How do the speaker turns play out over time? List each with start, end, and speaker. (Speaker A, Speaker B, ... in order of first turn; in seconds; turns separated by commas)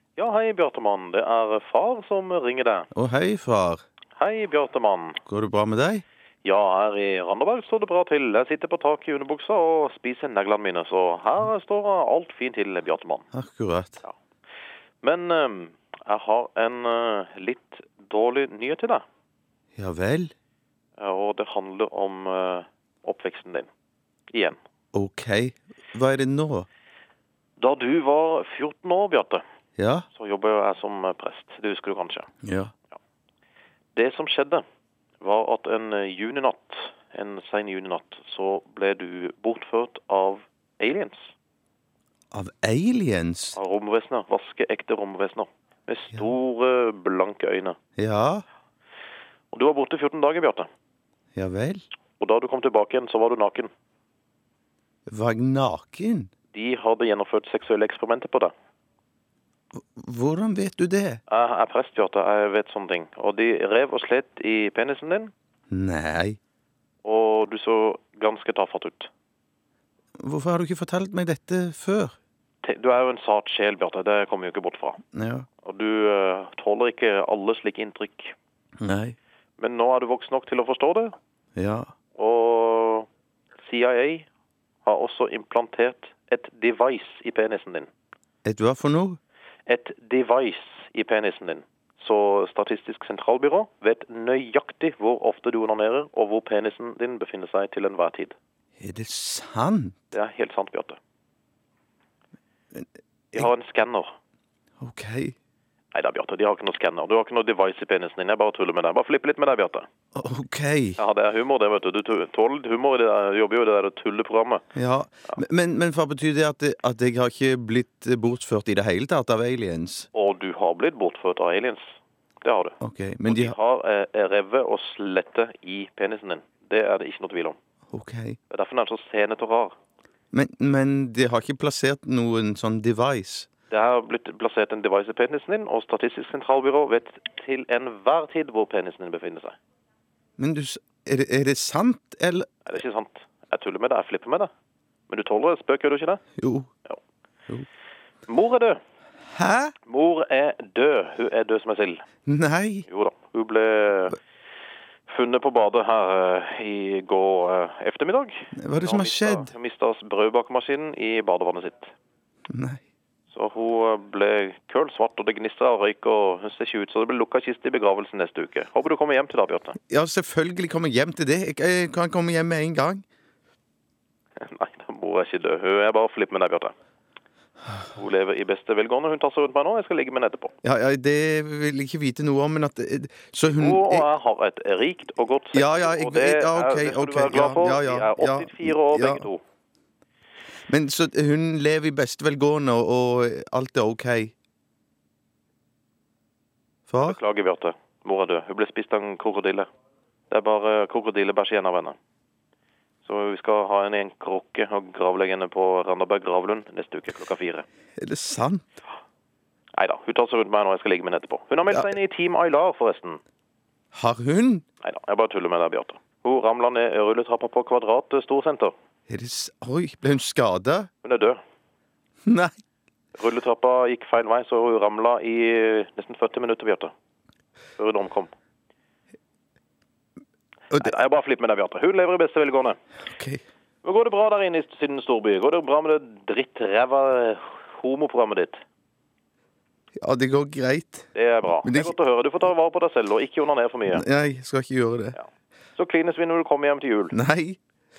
Speaker A: 0.2-2.9, Speaker B: 2.9-3.8, Speaker A: 4.2-5.2, Speaker B: 5.3-6.0, Speaker A: 6.4-13.2, Speaker B: 13.3-14.0, Speaker A: 15.0-19.0, Speaker B: 19.8-20.3, Speaker A: 21.0-23.7, Speaker A: 24.3-24.6, Speaker B: 24.9-26.7, Speaker A: 27.6-29.4, Speaker B: 29.8-30.1, Speaker A: 30.1-32.3, Speaker B: 32.4-32.7, Speaker A: 34.0-34.6, Speaker A: 35.2-41.3, Speaker B: 42.3-43.6, Speaker A: 43.5-47.8, Speaker B: 48.0-48.5, Speaker A: 49.5-50.7, Speaker B: 51.3-51.8, Speaker A: 52.2-53.7, Speaker B: 55.1-56.3, Speaker A: 56.5-58.5, Speaker B: 59.7-61.2, Speaker A: 61.3-65.3, Speaker B: 65.7-66.4, Speaker A: 67.0-69.1, Speaker B: 70.2-72.2, Speaker A: 72.6-75.0, Speaker B: 75.1-75.5, Speaker A: 75.6-78.3, Speaker B: 78.8-79.2, Speaker A: 79.6-81.1, Speaker B: 81.6-81.9, Speaker A: 82.2-83.1, Speaker A: 83.6-84.3, Speaker A: 84.8-87.9, Speaker B: 88.4-89.2, Speaker A: 89.7-98.3, Speaker B: 98.8-100.0, Speaker A: 100.1-101.0, Speaker B: 102.7-103.5, Speaker A: 103.3-104.1, Speaker B: 104.8-105.4, Speaker A: 105.9-109.9, Speaker B: 110.1-111.0, Speaker A: 111.0-114.6, Speaker B: 114.8-120.1, Speaker A: 120.1-127.6, Speaker B: 122.8-123.6, Speaker B: 127.9-128.4, Speaker A: 128.5-129.7, Speaker B: 130.3-133.5, Speaker A: 133.7-139.6, Speaker B: 140.4-142.5, Speaker A: 142.7-144.5, Speaker A: 145.1-146.2, Speaker B: 146.4-146.7, Speaker A: 148.3-148.8, Speaker B: 149.3-149.7, Speaker A: 149.8-152.1, Speaker B: 152.2-152.8, Speaker A: 152.9-154.2, Speaker A: 155.1-161.9, Speaker B: 158.5-159.5, Speaker B: 162.5-162.8, Speaker A: 163.3-169.8, Speaker B: 169.9-173.0, Speaker A: 174.4-176.7, Speaker A: 177.9-180.5, Speaker B: 180.6-184.1, Speaker A: 183.5-189.4, Speaker B: 185.5-189.2, Speaker B: 190.7-194.3, Speaker B: 196.9-197.2, Speaker A: 197.0-199.7, Speaker A: 200.3-201.9, Speaker A: 203.0-207.7, Speaker B: 208.0-208.7, Speaker A: 209.8-213.2, Speaker B: 213.9-214.7, Speaker A: 214.8-218.7, Speaker B: 219.1-220.9, Speaker A: 221.0-221.4, Speaker B: 222.2-222.5, Speaker A: 223.2-226.9, Speaker A: 227.8-228.3, Speaker A: 230.8-232.8, Speaker B: 233.1-233.4, Speaker A: 233.8-238.6, Speaker B: 240.0-241.1, Speaker A: 241.1-244.0, Speaker B: 241.6-241.9, Speaker B: 243.9-245.2, Speaker A: 245.2-247.2, Speaker B: 247.1-247.6